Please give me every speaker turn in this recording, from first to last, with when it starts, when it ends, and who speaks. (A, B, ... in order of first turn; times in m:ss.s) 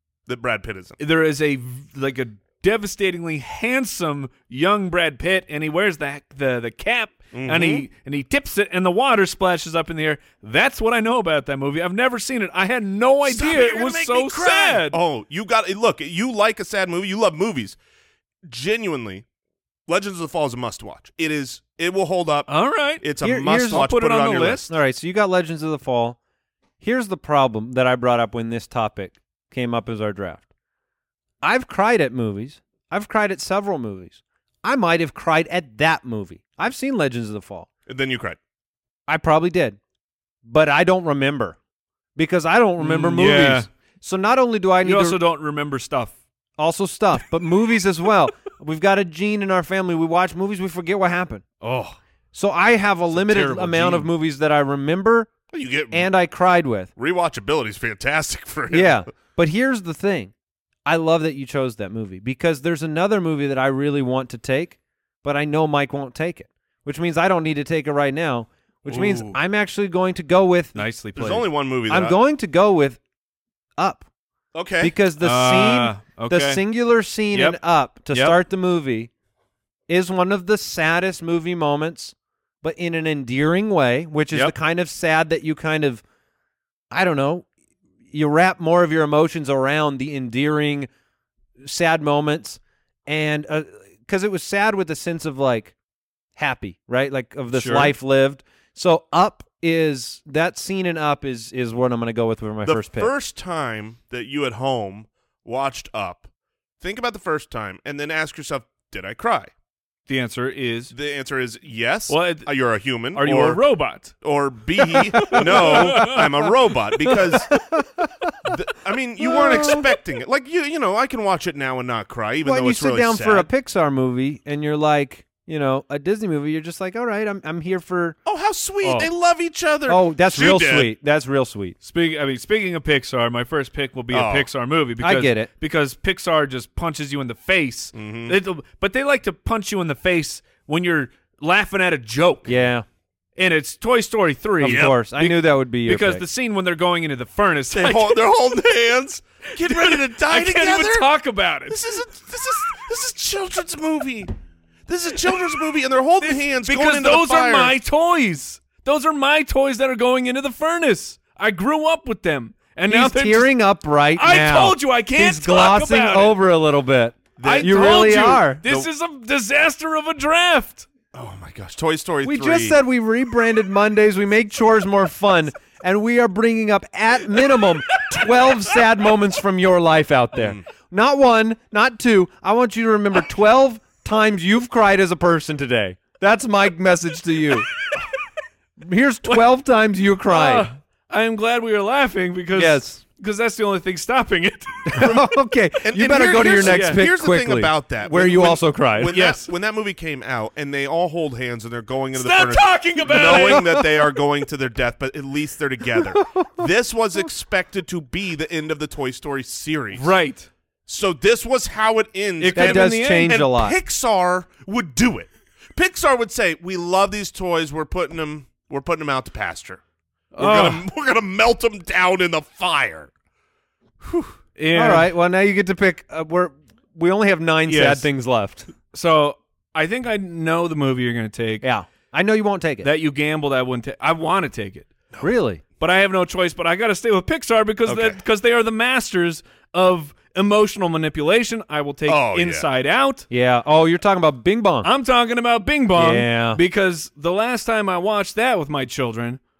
0:00.3-0:01.0 A
0:01.0-0:15.0 B
0:07.3-0:07.9 A
0:13.3-0:17.8 A
0:18.5-0:19.2 A
0:19.9-0:24.7 A
0:22.5-0:23.1 B
0:23.2-0:23.9 C
0:23.7-0:24.7 B
0:24.7-0:26.2 C
0:26.8-0:30.4 C
0:31.4-0:37.7 C
0:37.9-0:38.4 A
0:39.1-0:39.8 C
0:40.4-0:41.6 C
0:42.2-0:45.2 C
0:42.8-0:43.7 B
0:44.8-0:46.2 B
0:46.6-0:51.4 C
0:51.6-0:52.0 B
0:52.3-0:55.3 C
0:53.1-0:54.1 B
0:55.5-0:56.1 A
0:55.9-0:56.9 C
0:57.0-0:59.1 A
0:58.7-1:00.3 C
1:00.8-1:10.8 C
1:08.9-1:09.4 B
1:10.8-1:11.5 B
1:11.2-1:12.2 A
1:11.9-1:13.0 C
1:13.8-1:14.1 C
1:14.5-1:14.9 A
1:14.8-1:19.1 C
1:15.2-1:16.6 B
1:17.3-1:17.6 B
1:18.1-1:18.4 B
1:19.9-1:26.0 C
1:26.9-1:27.5 C
1:28.1-1:30.9 C
1:31.6-1:35.7 C
1:36.4-1:43.1 C
1:37.5-1:37.9 B
1:42.6-1:46.3 A
1:46.8-1:49.5 A
1:50.1-1:50.9 B
1:50.9-1:57.5 A
1:52.1-1:52.5 B
1:53.1-1:54.1 B
1:55.2-1:56.4 B
1:57.5-1:58.3 C
1:58.4-2:03.5 A
1:59.2-1:59.8 C
2:02.4-2:08.2 C
2:08.3-2:10.9 A
2:09.9-2:11.8 C
2:11.8-2:22.6 B
2:14.1-2:14.5 A
2:15.0-2:15.5 C
2:18.0-2:18.4 A
2:22.5-2:22.8 C
2:23.4-2:28.2 B
2:24.6-2:26.2 C
2:27.7-2:31.1 A
2:29.6-2:32.0 B
2:31.7-2:34.3 A
2:34.9-2:37.8 A
2:36.2-2:43.5 B
2:42.9-2:48.6 C
2:44.2-2:46.4 B
2:47.4-2:48.9 A
2:47.4-2:50.9 B
2:51.1-2:52.8 A
2:52.2-3:07.7 C
3:00.4-3:00.6 A
3:08.8-3:10.7 C
3:10.3-3:15.1 B
3:12.6-3:13.0 C
3:14.9-3:19.1 C
3:15.8-3:30.1 A
3:16.6-3:17.0 B
3:19.1-3:19.5 B
3:22.2-3:23.8 B
3:23.2-3:23.6 C
3:26.2-3:26.5 C
3:29.9-3:30.5 B
3:30.9-3:39.8 A
3:32.4-3:33.4 B
3:32.5-3:33.8 C
3:40.3-3:40.8 B
3:40.4-3:43.1 A
3:44.0-3:44.4 A
3:44.6-3:45.1 B
3:44.7-3:48.7 C
3:47.7-3:48.1 B
3:48.9-3:51.6 B
3:51.6-3:52.9 C
3:52.8-3:54.9 B
3:55.2-3:55.6 C
3:55.8-4:03.3 B
3:57.9-3:58.2 A
4:02.1-4:02.7 A
4:03.3-4:04.9 C
4:04.8-4:09.4 B
4:06.0-4:06.6 C